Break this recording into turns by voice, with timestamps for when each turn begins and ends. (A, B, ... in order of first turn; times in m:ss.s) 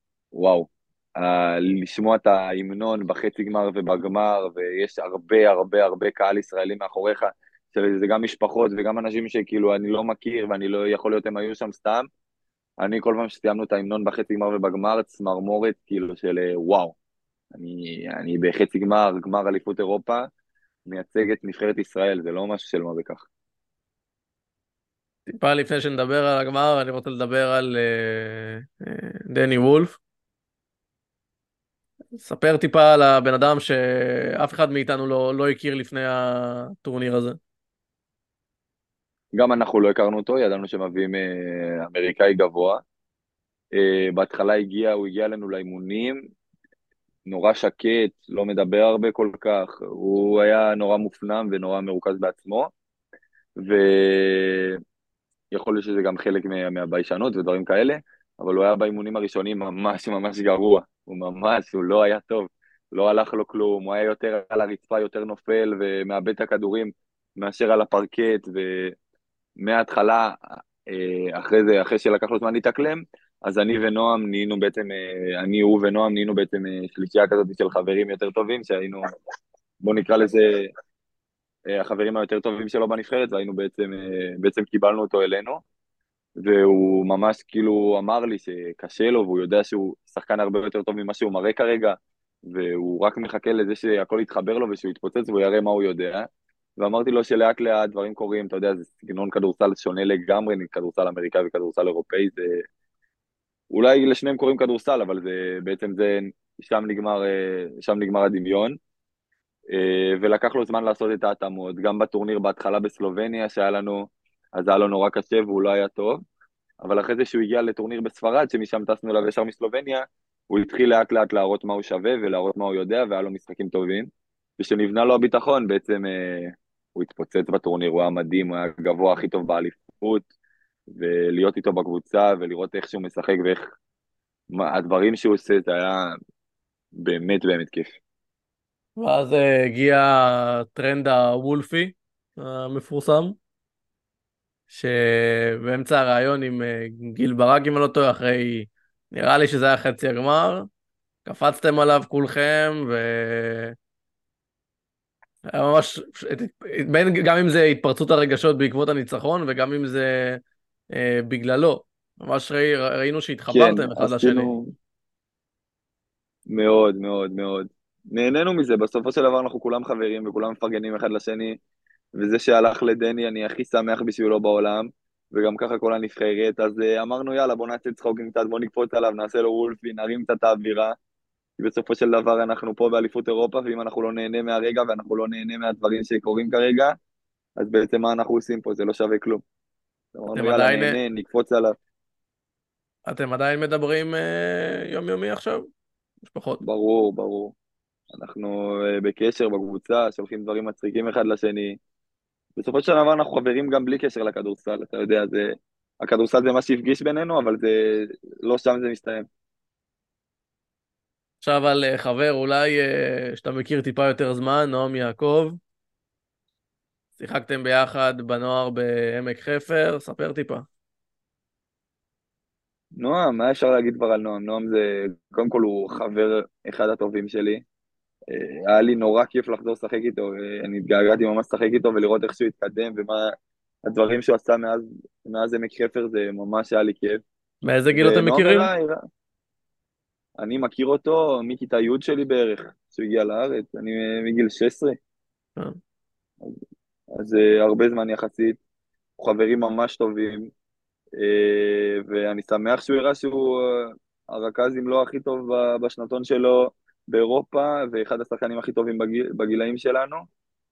0:00.3-0:12.1 A
0:12.8-0:17.0 A
0:17.5-0:20.3 A
0:20.8-0:23.3 A
0:25.3-0:30.0 B
0:32.1-0:37.4 B
0:39.3-0:42.8 A
0:43.7-0:46.2 A
0:47.2-0:52.7 A
0:53.6-0:54.8 A
0:55.5-1:09.0 A
1:09.6-1:19.0 A
1:19.8-1:20.7 A
1:21.7-1:25.6 A
1:26.4-1:42.6 A
1:43.7-1:48.8 A
1:49.7-1:56.2 A
1:56.8-2:10.3 A
2:10.9-2:13.7 A
2:14.5-2:16.1 A
2:17.0-2:18.0 A
2:19.0-2:23.4 B
2:24.7-2:30.7 B
2:31.2-2:33.7 B
2:35.5-2:40.4 B
2:40.9-2:44.5 B
2:43.5-2:44.7 A
2:46.5-2:51.6 A
2:52.2-3:01.0 A
3:01.6-3:07.0 A
3:07.6-3:09.4 A
3:10.1-3:11.7 A
3:10.3-3:11.0 B
3:13.1-3:15.7 B
3:16.2-3:16.6 B
3:16.6-3:17.5 A
3:18.1-3:21.8 A
3:22.6-3:29.3 A
3:31.4-3:35.6 B
3:37.2-3:40.6 B
3:43.0-3:47.6 A
3:48.3-3:53.3 A
3:53.8-3:57.2 A
3:57.6-3:58.7 B
3:57.9-3:59.0 A
4:00.4-4:05.0 A
4:07.2-4:08.6 A
4:09.2-4:10.5 A
4:11.2-4:20.3 A